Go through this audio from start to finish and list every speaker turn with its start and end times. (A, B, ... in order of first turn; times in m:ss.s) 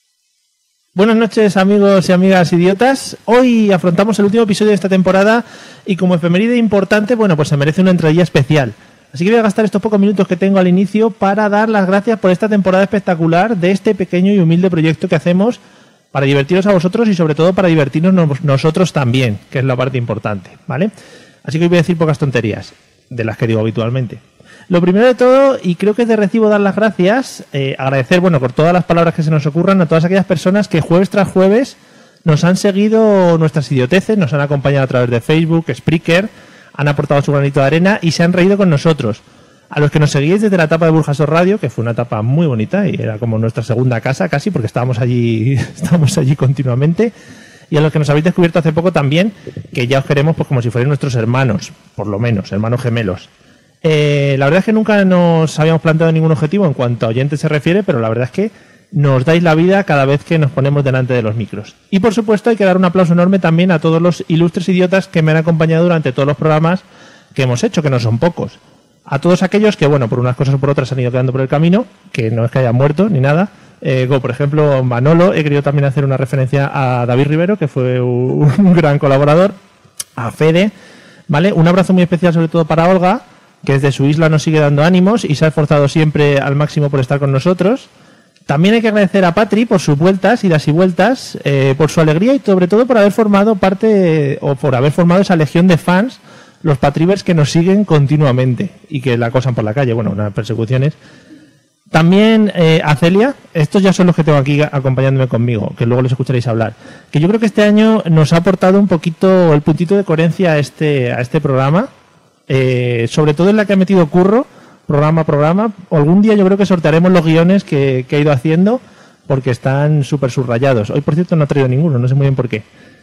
0:01.0-0:15.6 A
0:16.1-0:20.9 A
0:21.4-0:47.1 A
0:47.7-0:53.3 A
0:53.8-1:06.8 A
1:07.4-1:19.6 A
1:20.2-1:20.7 A
1:21.3-1:27.9 A
1:28.5-1:41.0 A
1:41.9-1:51.9 A
1:52.5-2:02.6 A